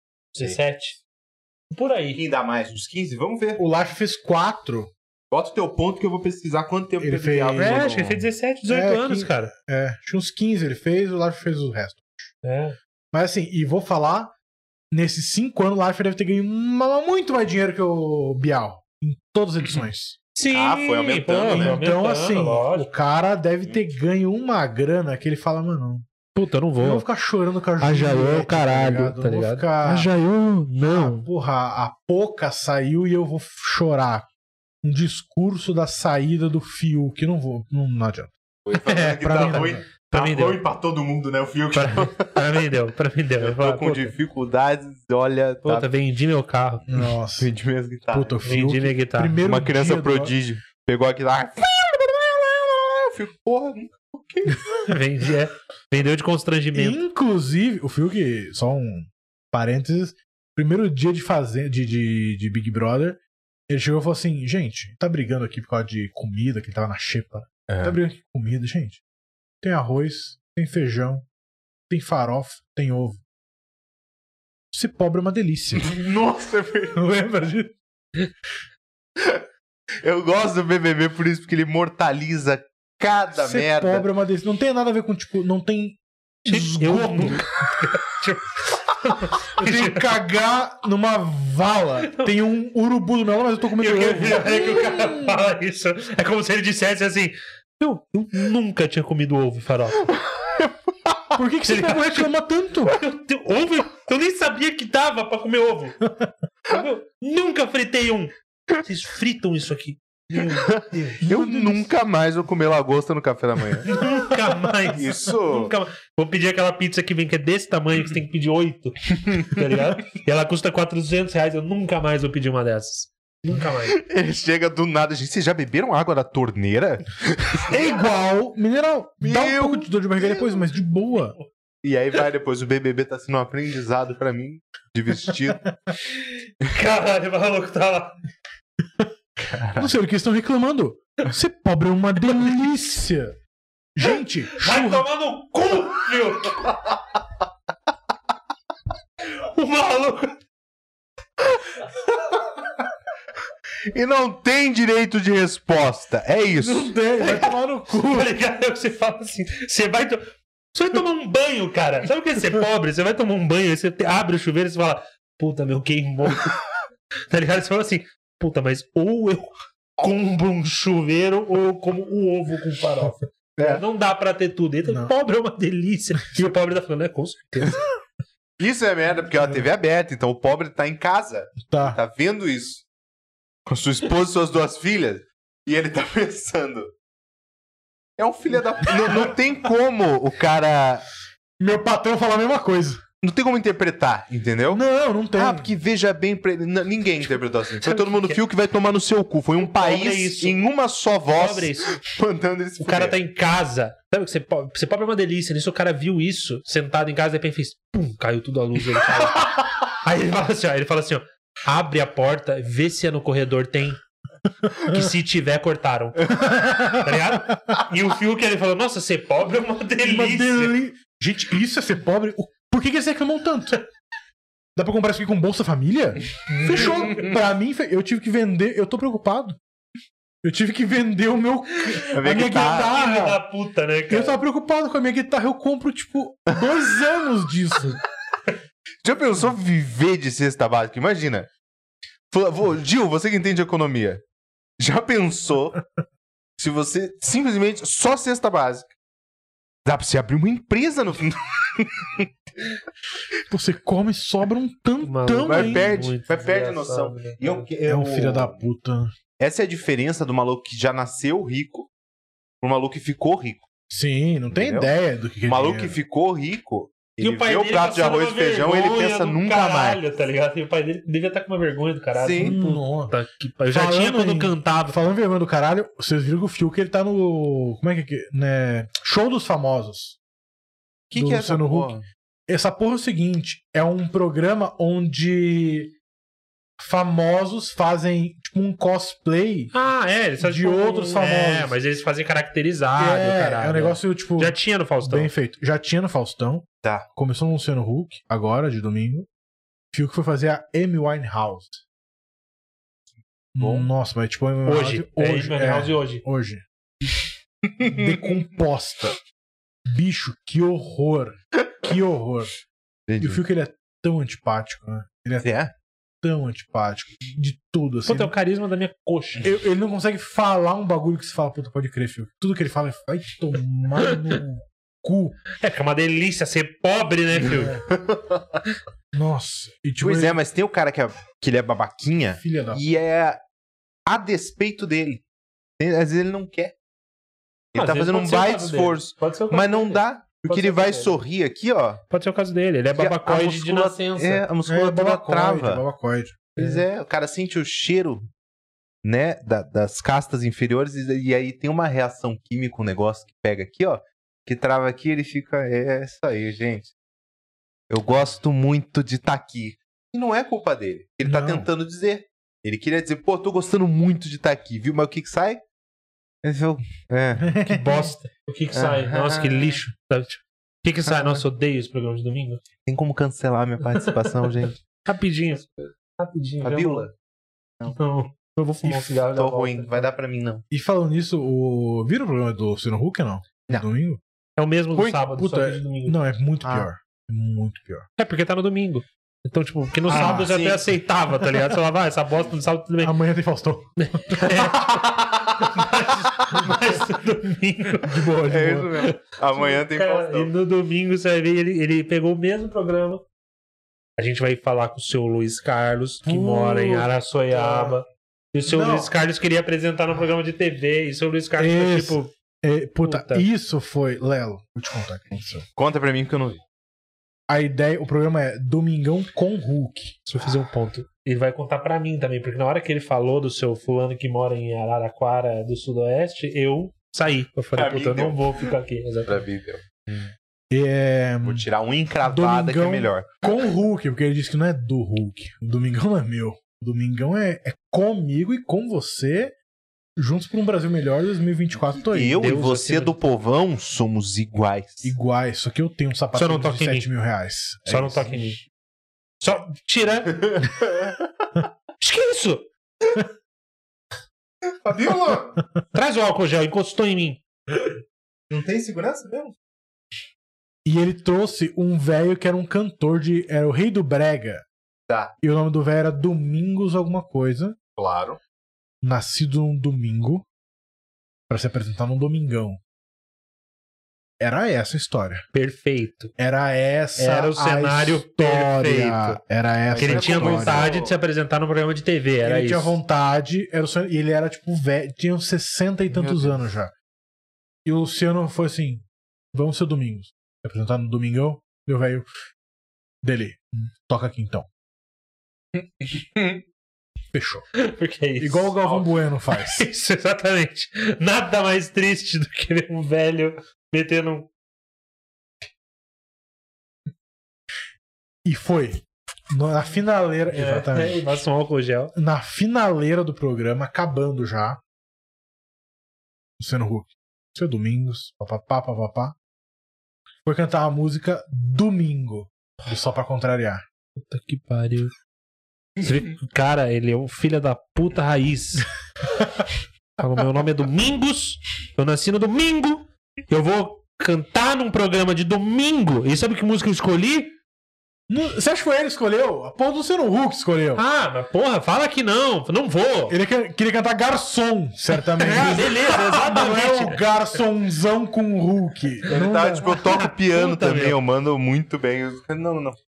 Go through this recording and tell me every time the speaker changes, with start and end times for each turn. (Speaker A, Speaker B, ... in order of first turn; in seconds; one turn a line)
Speaker A: 0.3-1.0
Speaker A: 1.7-2.2
Speaker B: 2.1-3.6
Speaker C: 3.6-4.9
Speaker B: 5.3-8.2
Speaker C: 7.0-8.1
Speaker A: 7.6-9.5
Speaker C: 8.7-12.3
Speaker A: 12.4-12.8
Speaker C: 13.1-14.3
Speaker C: 14.9-20.2
Speaker A: 20.4-22.9
Speaker B: 20.5-21.8
Speaker C: 21.5-26.1
Speaker A: 26.4-27.1
Speaker C: 26.8-30.1
Speaker A: 27.8-31.3
Speaker C: 30.8-34.3
Speaker C: 34.8-38.3
Speaker B: 38.6-42.5
Speaker A: 38.8-40.6
Speaker C: 39.0-39.8
Speaker A: 41.7-44.1
Speaker B: 43.4-45.9
Speaker A: 45.6-46.9
Speaker C: 46.9-47.5
Speaker B: 47.4-48.5
Speaker C: 48.1-50.3
Speaker A: 48.4-49.4
Speaker B: 49.4-54.9
Speaker A: 54.8-57.0
Speaker C: 56.7-69.0
Speaker B: 67.7-68.0
Speaker C: 69.6-71.3
Speaker C: 71.9-73.2
Speaker C: 74.7-75.9
Speaker B: 75.8-77.0
Speaker C: 76.9-77.8
Speaker B: 79.2-79.4
Speaker B: 80.0-84.1
Speaker C: 83.3-87.5
Speaker A: 86.5-90.1
Speaker C: 89.6-95.4
Speaker A: 92.1-92.3
Speaker A: 93.8-100.1
Speaker B: 100.5-101.1
Speaker C: 101.3-103.0
Speaker A: 101.6-102.3
Speaker A: 102.8-106.0
Speaker A: 106.7-111.2
Speaker B: 110.7-113.9
Speaker C: 111.2-111.9
Speaker A: 113.8-124.0
Speaker B: 114.9-115.7
Speaker B: 119.2-119.7
Speaker B: 123.9-127.8
Speaker C: 127.7-131.4
Speaker B: 129.2-130.7
Speaker B: 131.8-135.7
Speaker A: 136.2-138.2
Speaker B: 139.5-139.9
Speaker C: 139.8-143.3
Speaker C: 143.9-145.1
Speaker A: 144.6-146.8
Speaker A: 149.3-150.4
Speaker B: 153.9-156.9
Speaker C: 156.5-158.3
Speaker A: 157.2-166.5
Speaker A: 167.3-177.8
Speaker B: 173.6-173.8
Speaker C: 174.9-175.1
Speaker B: 178.6-182.8
Speaker C: 181.6-182.0
Speaker B: 183.7-186.9
Speaker B: 188.2-191.1
Speaker C: 191.6-193.0
Speaker B: 193.2-194.8
Speaker C: 194.7-195.7
Speaker B: 195.4-203.2
Speaker A: 197.8-198.4
Speaker A: 199.6-200.6
Speaker A: 201.3-202.0
Speaker A: 202.8-214.0
Speaker A: 214.7-220.8
Speaker C: 216.4-217.3
Speaker C: 220.0-223.8
Speaker C: 224.8-229.6
Speaker A: 226.5-227.3
Speaker B: 226.9-227.3
Speaker C: 230.4-233.4
Speaker A: 231.9-234.4
Speaker B: 232.1-232.9
Speaker C: 234.1-238.0
Speaker B: 239.0-241.5
Speaker B: 242.3-244.2
Speaker B: 244.8-245.8
Speaker B: 246.6-248.9
Speaker B: 249.8-252.7
Speaker C: 253.5-255.9
Speaker A: 255.0-257.7
Speaker B: 255.4-258.6
Speaker C: 257.9-259.1
Speaker B: 259.4-261.9
Speaker B: 262.6-263.6
Speaker C: 263.9-266.0
Speaker B: 264.6-264.9
Speaker B: 265.4-270.0
Speaker A: 267.2-275.0
Speaker B: 272.1-272.6
Speaker C: 272.4-273.1
Speaker C: 273.7-280.2
Speaker B: 281.1-282.1
Speaker C: 281.1-281.9
Speaker C: 282.5-285.9
Speaker C: 286.8-289.7
Speaker A: 289.7-295.3
Speaker C: 290.4-291.8
Speaker C: 293.0-299.3
Speaker C: 299.9-301.8
Speaker C: 303.6-307.2
Speaker B: 303.6-303.9
Speaker A: 304.7-306.2
Speaker B: 307.7-308.2
Speaker C: 307.8-309.2
Speaker C: 309.9-312.5
Speaker B: 313.1-313.4
Speaker C: 313.2-315.5
Speaker B: 315.4-315.7
Speaker C: 316.2-318.3
Speaker A: 318.1-319.5
Speaker C: 319.4-325.4
Speaker A: 325.6-327.8
Speaker B: 327.8-328.6
Speaker C: 329.1-330.4
Speaker B: 330.0-333.4
Speaker C: 332.4-332.8
Speaker B: 334.1-335.2
Speaker B: 335.8-336.7
Speaker B: 337.7-342.0
Speaker A: 337.8-341.2
Speaker A: 342.1-344.4
Speaker B: 342.9-345.8
Speaker C: 344.7-346.6
Speaker B: 346.6-348.3
Speaker B: 349.0-356.9
Speaker B: 357.9-365.6
Speaker C: 361.2-361.7
Speaker B: 366.4-367.5
Speaker C: 367.4-368.1
Speaker A: 367.6-372.6
Speaker B: 368.7-369.8
Speaker B: 371.1-371.4
Speaker B: 372.9-374.8
Speaker A: 373.9-377.1
Speaker B: 376.6-377.1
Speaker A: 377.9-380.1
Speaker B: 378.8-380.6
Speaker C: 380.7-384.2
Speaker A: 384.6-386.2
Speaker C: 384.9-388.1
Speaker A: 388.2-393.2
Speaker C: 390.1-390.5
Speaker B: 390.1-390.9
Speaker C: 393.0-394.5
Speaker A: 394.0-398.3
Speaker B: 394.8-395.8
Speaker C: 397.9-399.0
Speaker B: 398.4-400.5
Speaker A: 398.9-403.2
Speaker A: 404.2-412.3
Speaker C: 406.2-408.0
Speaker C: 408.7-409.1
Speaker C: 411.6-415.7
Speaker A: 413.0-413.5
Speaker B: 415.8-416.6
Speaker C: 417.5-420.2
Speaker A: 420.2-429.4
Speaker B: 427.8-428.7
Speaker B: 429.3-430.3
Speaker C: 430.7-431.7
Speaker B: 431.4-433.4
Speaker C: 432.2-439.6
Speaker C: 440.2-442.4
Speaker B: 441.9-445.1
Speaker A: 442.4-443.1
Speaker C: 445.0-448.3
Speaker A: 446.4-447.1
Speaker A: 447.9-448.6
Speaker A: 449.4-450.4
Speaker B: 450.3-451.2
Speaker A: 452.0-452.7
Speaker B: 454.8-455.6
Speaker A: 455.9-457.4
Speaker B: 458.5-459.6
Speaker C: 460.9-464.6
Speaker C: 465.4-467.8
Speaker B: 468.0-468.4
Speaker C: 469.0-470.5
Speaker C: 471.5-472.8
Speaker C: 474.4-475.4
Speaker A: 475.5-476.3
Speaker C: 476.4-480.9
Speaker A: 477.2-479.4
Speaker B: 479.9-481.1
Speaker A: 480.0-483.0
Speaker C: 482.4-486.9
Speaker B: 486.1-486.6
Speaker C: 487.9-492.3
Speaker C: 493.2-494.7
Speaker B: 495.8-496.6
Speaker C: 497.3-497.7
Speaker A: 497.8-504.5
Speaker C: 498.4-499.9
Speaker C: 508.4-511.2
Speaker A: 510.5-512.1
Speaker C: 512.1-514.8
Speaker C: 516.6-519.4
Speaker C: 520.5-523.9
Speaker A: 524.2-525.1
Speaker A: 526.0-528.9
Speaker A: 530.2-537.5
Speaker C: 538.3-541.0
Speaker A: 541.0-543.4
Speaker C: 543.3-549.9
Speaker A: 545.4-547.2
Speaker B: 549.3-553.0
Speaker A: 549.8-551.2